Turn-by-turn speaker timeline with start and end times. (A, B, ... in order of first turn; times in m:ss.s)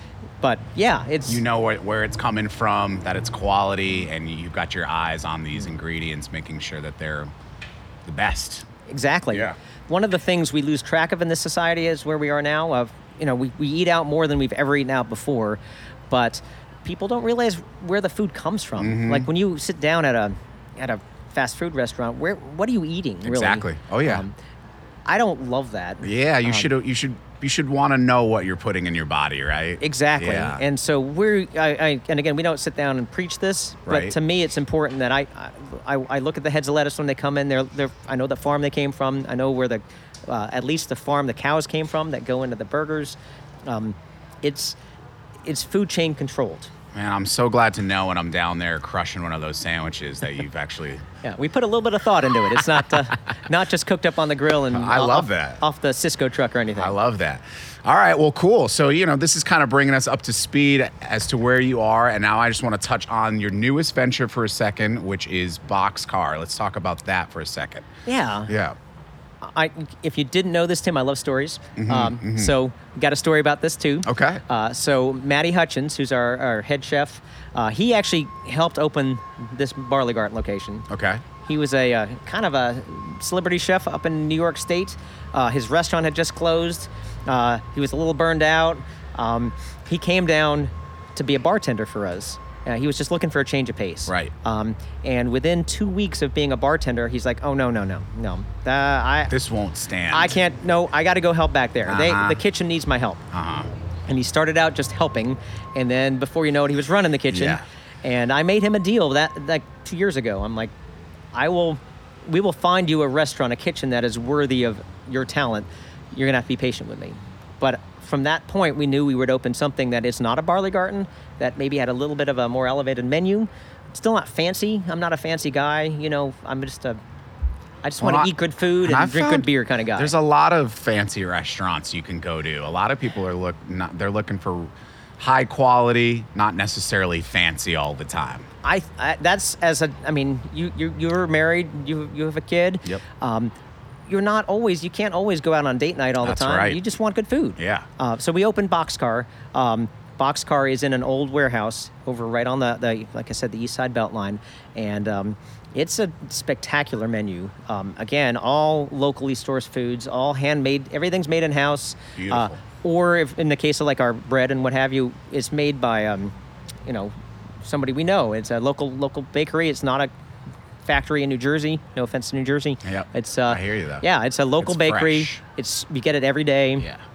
0:00.4-0:01.4 A
0:01.3-0:07.3 B
0:08.0-0:08.7 B
0:08.9-0:15.6 A
0:16.1-0:24.3 A
0:18.8-0:19.3 B
0:23.2-0:24.2 B
0:25.1-0:26.7 A
0:26.0-0:30.6 B
0:29.8-0:44.8 A
0:33.9-0:34.2 B
0:45.5-0:46.7 A
0:46.9-0:51.0 B
0:51.2-0:57.0 A
0:54.7-0:55.6 B
0:56.8-1:07.9 B
1:08.1-1:08.5 A
1:08.5-1:08.8 B
1:09.4-1:20.9 A
1:11.8-1:12.5 B
1:14.0-1:14.4 B
1:20.9-1:21.2 B
1:21.4-1:39.3 A
1:34.1-1:34.3 B
1:39.3-1:40.4 B
1:40.1-1:43.2 A
1:41.8-1:42.4 B
1:43.3-1:43.7 B
1:44.1-1:50.7 A
1:47.3-1:47.6 B
1:51.3-2:07.0 A
2:07.8-2:10.1 A
2:08.0-2:08.3 B
2:08.8-2:18.5 B
2:18.6-2:23.5 A
2:24.1-2:46.3 A
2:26.2-2:26.8 B
2:27.6-2:27.9 B
2:42.2-2:42.6 B
2:46.9-2:50.1 A
2:50.8-2:56.9 A
2:52.8-2:54.0 B
2:54.6-2:55.4 B